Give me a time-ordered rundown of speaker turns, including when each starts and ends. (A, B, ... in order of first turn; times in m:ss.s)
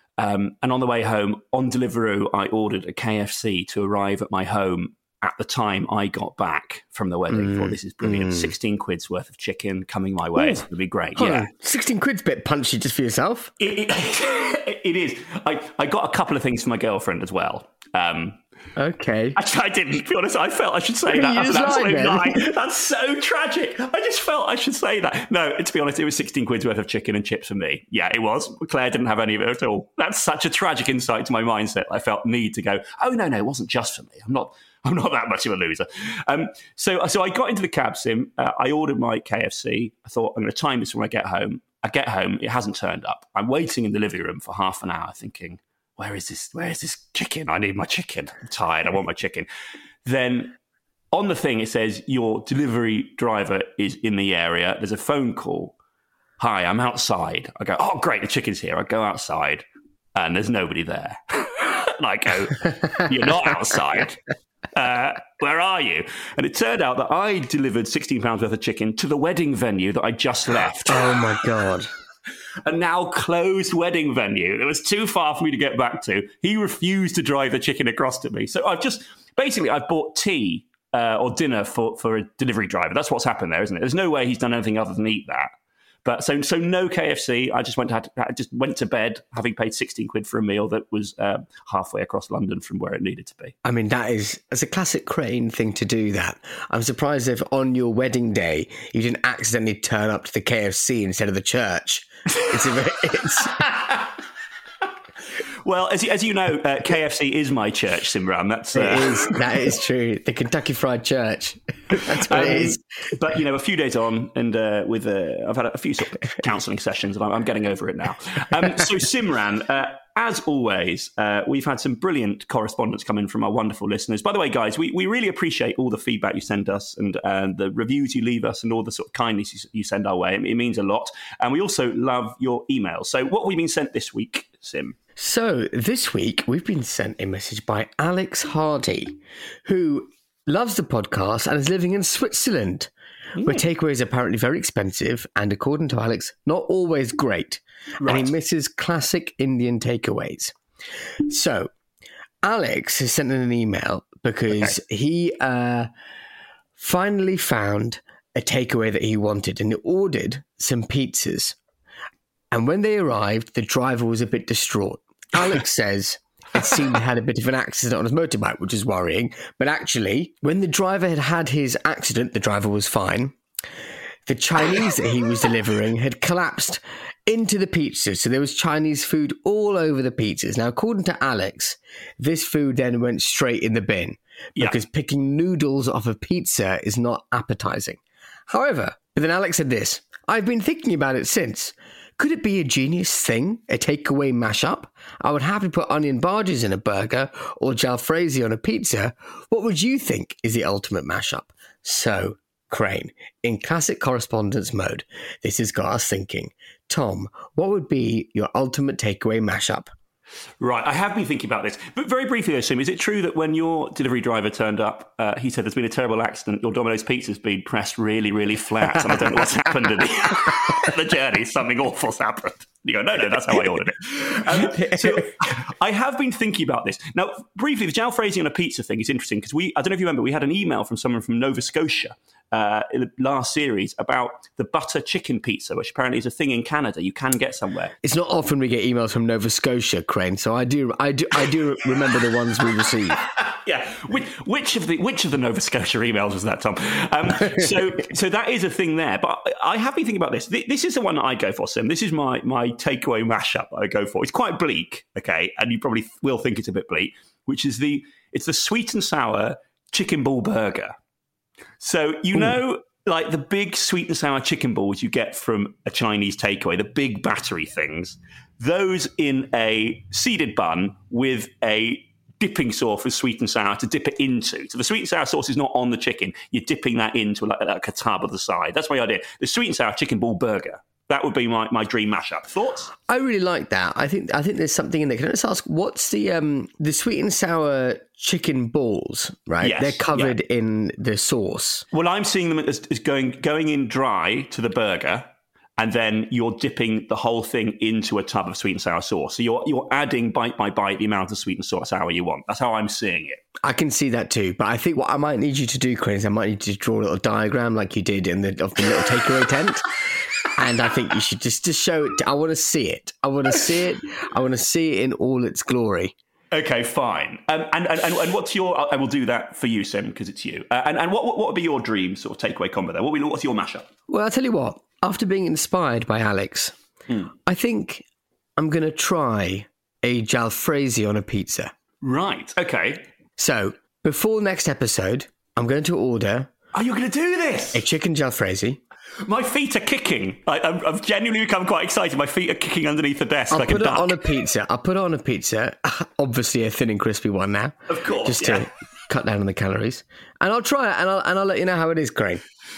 0:00.2-0:11.5 A
0:07.3-0:08.5 B
0:10.4-0:10.6 B
0:11.2-0:13.5 B
0:13.6-0:18.4 A
0:18.8-0:19.4 B
0:19.4-0:49.5 A
0:21.1-0:22.4 B
0:50.0-0:50.6 A
0:51.1-0:55.8 A
0:56.4-1:04.2 A
1:04.7-1:11.2 A
1:10.9-1:11.9 B
1:12.6-1:25.5 A
1:26.0-1:33.6 A
1:33.6-1:43.7 B
1:45.6-1:49.4 A
1:48.7-1:52.8 B
1:51.9-2:15.0 A
2:15.2-2:30.5 B
2:23.4-2:23.6 A
2:28.0-2:28.3 A
2:31.3-2:31.7 B
2:32.4-2:35.9 B
2:36.8-2:41.6 B
2:42.5-2:53.4 B
2:54.3-3:29.9 B
3:30.6-3:57.9 A
3:44.3-3:45.3 B
3:58.0-4:03.2 B
4:03.4-4:20.9 A
4:21.8-4:42.9 A
4:43.1-4:51.9 B
4:49.6-4:50.4 A
4:51.9-5:03.4 A
5:03.6-5:09.8 B
5:10.6-5:16.1 B
5:16.5-5:23.9 A
5:24.1-5:26.8 B
5:27.4-5:28.0 B
5:28.6-5:31.7 B
5:32.0-5:33.0 A
5:33.4-5:36.5 B
5:36.7-5:37.8 A
5:37.7-5:38.8 B
5:39.2-5:44.2 A
5:43.5-5:52.4 B
5:47.9-5:48.7 A